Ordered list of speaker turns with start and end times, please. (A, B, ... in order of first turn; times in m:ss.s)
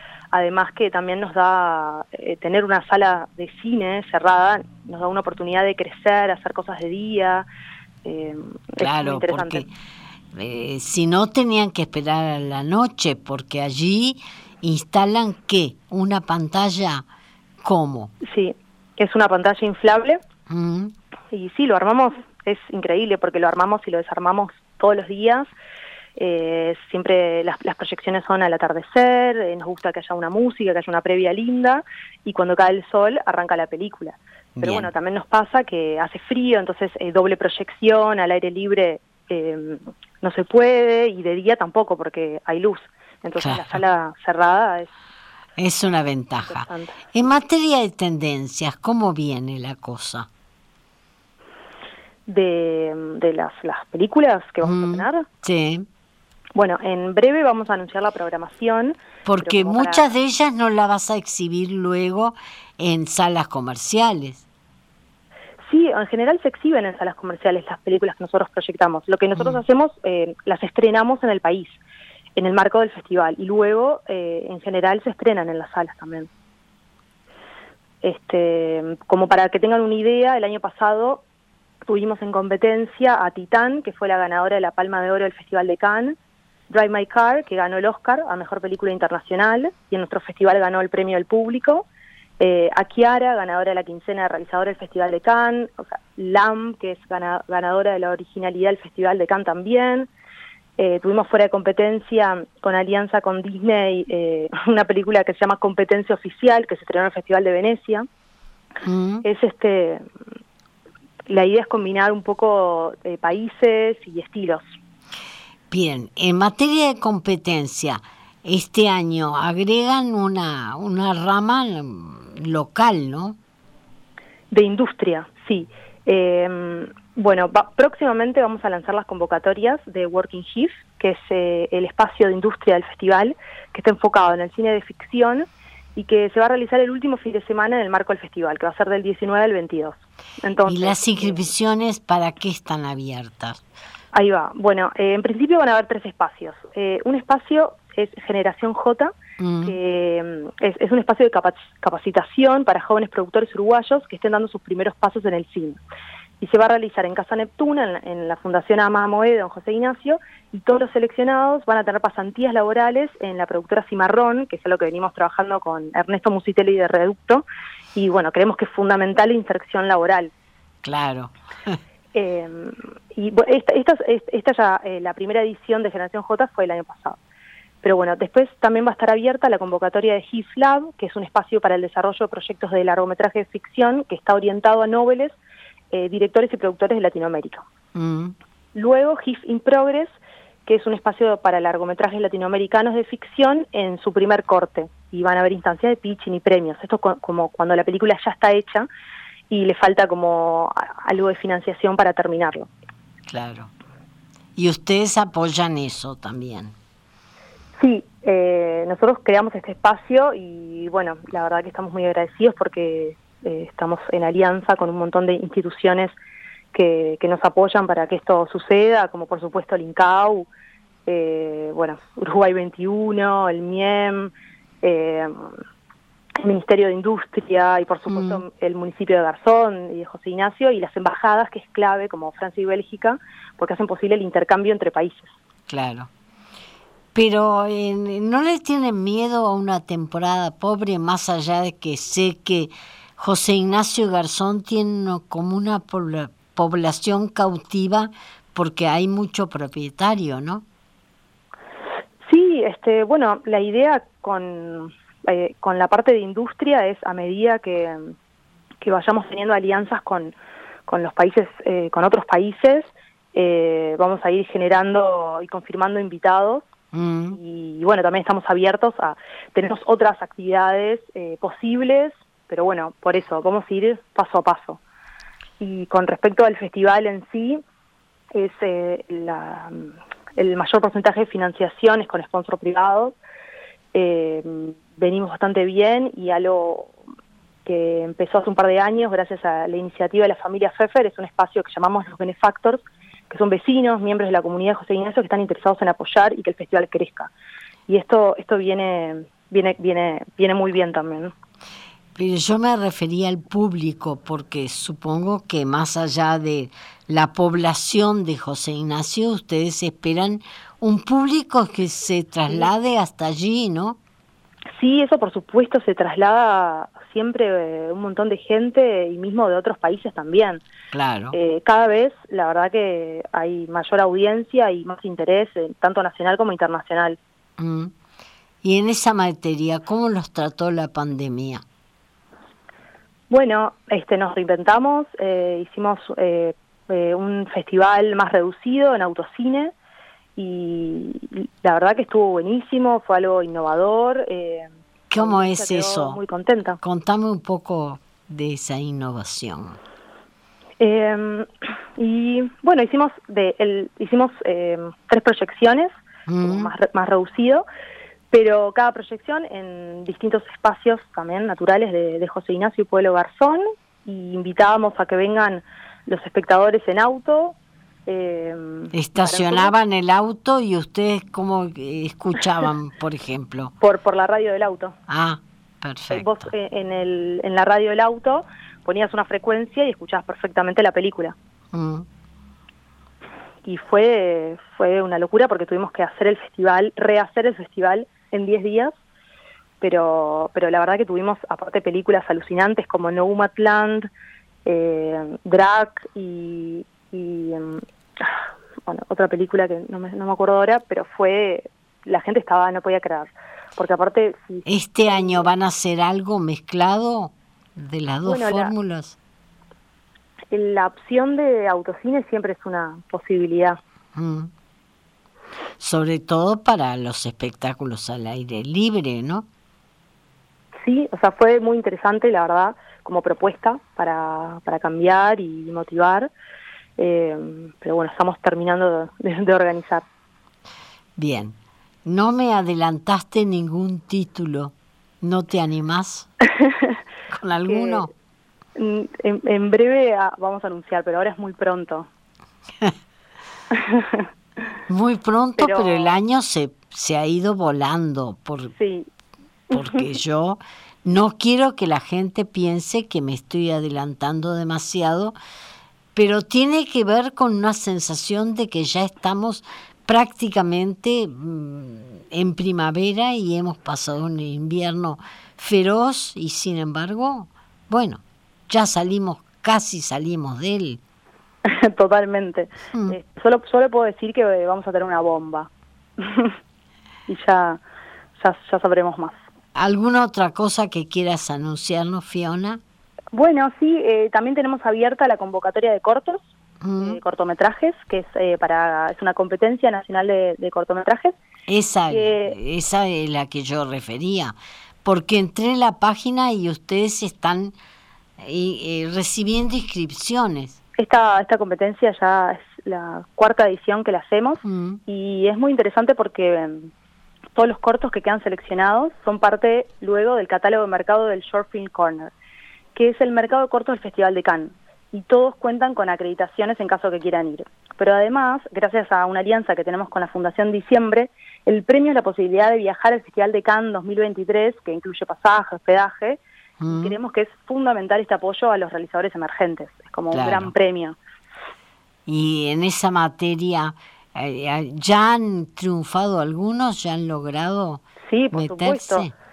0:00.3-0:07.4 A
0:08.0-0:09.6 A
0:08.8-0:09.7 B
0:10.3-0:17.0 B
0:17.6-0:18.1 B
0:18.2-0:20.2 A
0:20.5-0:20.9 B
0:21.3-0:25.5 A
0:26.2-0:44.9 A
0:34.6-0:34.9 B
0:43.4-0:43.8 B
0:45.6-0:50.3 B
0:46.4-0:47.0 A
0:52.3-0:55.2 A
0:54.6-0:55.8 B
0:56.5-1:00.1 A
0:59.2-1:04.4 B
1:05.6-1:11.8 A
1:09.3-1:09.6 B
1:12.4-1:16.3 A
1:18.0-1:21.2 A
1:21.8-1:26.2 A
1:26.7-1:31.9 A
1:32.4-1:40.1 A
1:40.8-1:48.0 A
1:48.8-1:49.2 B
1:49.2-1:50.0 A
1:51.3-1:54.6 A
1:55.7-2:03.4 B
2:04.5-2:21.5 A
2:20.6-2:23.6 B
2:24.1-2:35.8 A
2:29.4-2:29.8 B
2:36.4-2:50.3 A
2:50.8-2:51.8 B
2:52.1-2:57.2 A
2:57.8-3:05.4 A
3:05.9-3:07.6 A
3:07.9-3:08.3 B
3:08.7-3:10.1 A
3:10.6-3:18.9 A
3:19.5-3:22.7 A
3:23.3-3:23.7 B
3:24.6-3:26.7 B
3:27.8-3:36.1 A
3:36.7-3:40.5 A
3:41.0-3:44.3 A
3:44.8-3:45.6 A
3:46.4-3:55.3 A
3:48.1-3:48.4 B
3:55.7-3:56.1 B
3:57.1-4:10.6 B
4:12.2-4:18.1 A
4:18.8-4:26.6 A
4:26.9-4:27.4 B
4:27.3-4:34.8 A
4:35.6-4:37.6 A
4:38.3-4:43.2 A
4:43.9-4:46.9 A
4:47.6-4:57.3 A
4:57.9-5:01.3 A
5:02.2-5:14.0 B
5:14.8-5:20.6 A
5:20.9-5:21.4 B
5:21.3-5:27.2 A
5:27.6-5:27.9 B
5:28.6-5:31.6 B
5:33.3-5:39.7 A
5:40.4-5:46.8 A
5:45.1-5:46.2 B
5:46.8-5:49.8 B
5:50.8-5:57.6 A
5:56.3-5:56.7 B
5:58.3-6:09.7 A
6:08.9-6:13.7 B
6:13.8-6:14.9 A
6:15.1-6:16.5 B
6:16.1-6:21.3 A
6:21.7-6:22.0 B
6:23.6-6:28.9 A
6:29.8-6:34.1 A
6:34.6-6:45.5 A
6:44.6-6:49.2 B
6:48.2-6:48.7 A
6:50.5-6:53.8 A
6:54.1-6:54.5 B
6:55.8-6:59.4 B
7:00.8-7:06.3 A
7:07.0-7:10.0 A
7:11.2-7:16.3 B
7:16.5-7:16.9 A
7:17.3-7:18.1 B
7:17.6-7:18.1 A
7:18.8-7:22.1 A
7:23.7-7:24.2 A
7:24.9-7:28.7 B
7:25.6-7:26.2 A
7:28.7-7:29.1 A
7:29.7-7:30.1 A
7:29.7-7:35.3 B
7:36.1-7:51.0 B
7:51.6-7:56.6 A
7:57.3-7:57.8 A
7:58.4-7:59.4 A
7:59.8-8:02.8 B
8:03.3-8:06.5 A
8:06.8-8:07.2 B
8:07.0-8:11.3 A
8:11.7-8:14.5 B
8:12.1-8:12.6 A
8:15.0-8:17.7 B
8:18.4-8:20.8 B
8:21.0-8:26.9 A
8:24.6-8:25.0 B
8:27.5-8:32.3 A
8:32.9-8:51.2 A
8:46.8-8:47.2 B
8:50.3-8:50.7 B
8:52.3-8:59.3 B
8:58.3-8:59.3 A